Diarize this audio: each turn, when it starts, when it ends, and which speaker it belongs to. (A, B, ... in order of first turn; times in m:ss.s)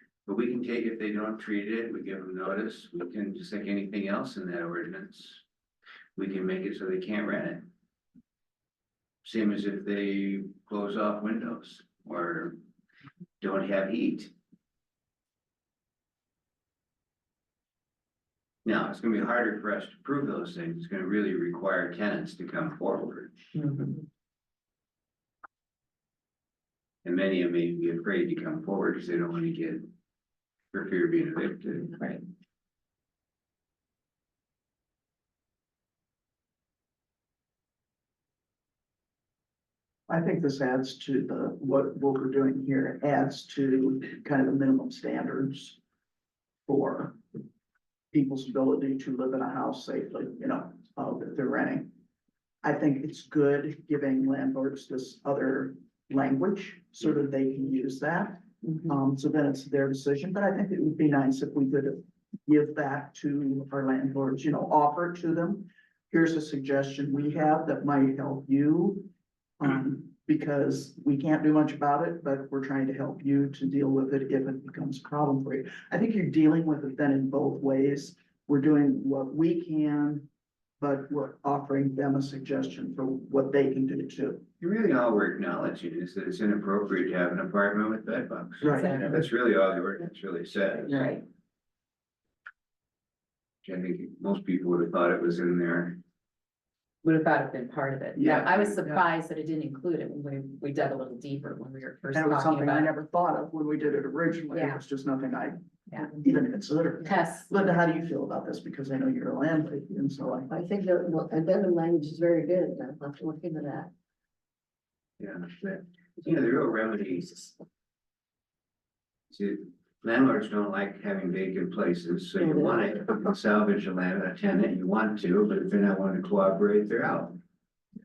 0:00.3-0:05.4 A
0:06.2-0:07.7 A
0:09.2-0:12.6 A
0:13.4-0:14.3 A
0:18.6-0:23.4 A
0:23.6-0:24.0 B
0:27.0-0:29.9 A
0:30.7-0:31.9 A
0:31.9-0:32.2 B
0:40.1-0:45.8 C
0:46.7-0:47.2 C
0:48.1-0:51.9 C
0:52.6-1:20.3 C
0:58.6-0:58.9 B
1:20.8-1:24.5 C
1:24.6-1:31.2 A
1:28.6-1:29.1 C
1:28.7-1:29.2 B
1:30.9-1:31.2 B
1:33.6-1:36.0 A
1:37.0-1:42.9 B
1:38.2-1:39.0 C
1:42.1-1:50.6 C
1:44.5-1:44.8 B
1:47.0-1:47.5 B
1:50.5-1:53.9 D
1:55.2-1:57.5 A
1:59.3-2:07.4 A
2:02.4-2:02.8 D